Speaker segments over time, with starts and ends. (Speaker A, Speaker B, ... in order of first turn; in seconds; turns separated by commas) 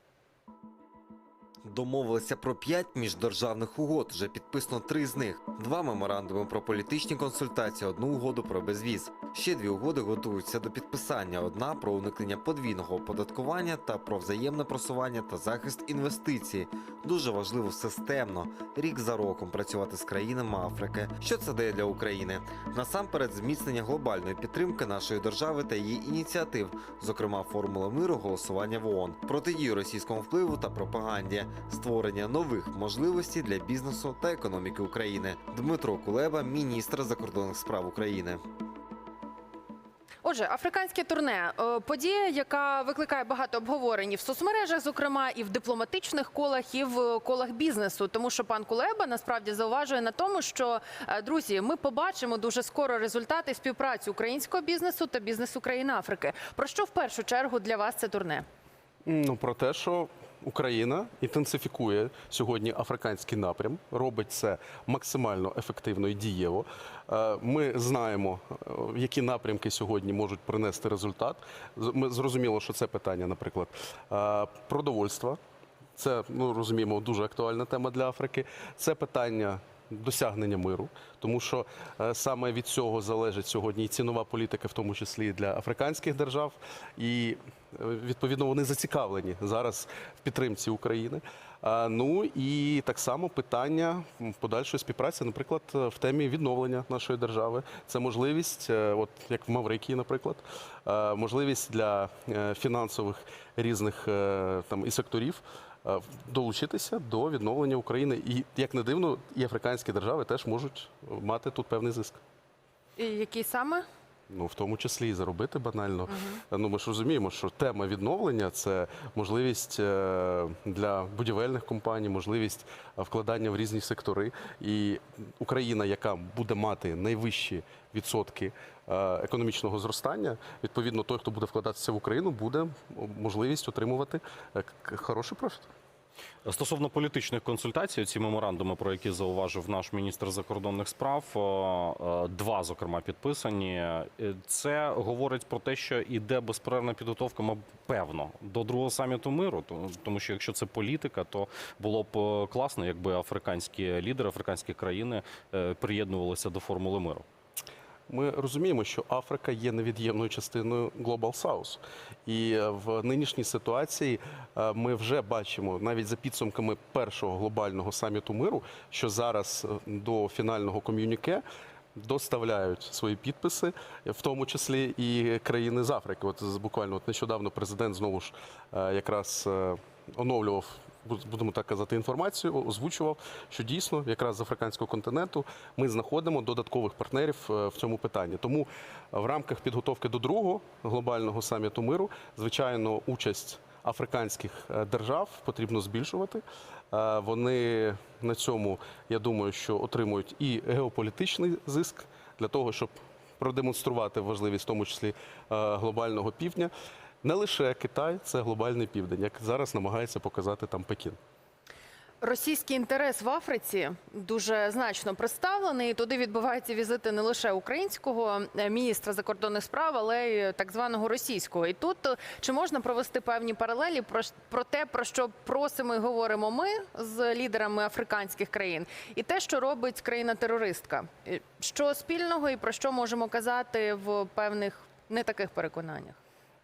Speaker A: 1.6-38.4, Speaker B: 40.2-58.5, Speaker C: 59.0-75.4, Speaker C: 76.0-112.2, Speaker B: 113.0-113.8, Speaker C: 114.3-135.7, Speaker B: 116.1-116.4, Speaker D: 136.4-157.2, Speaker C: 158.1-171.4, Speaker C: 171.9-206.7, Speaker C: 207.2-211.2, Speaker B: 212.2-236.2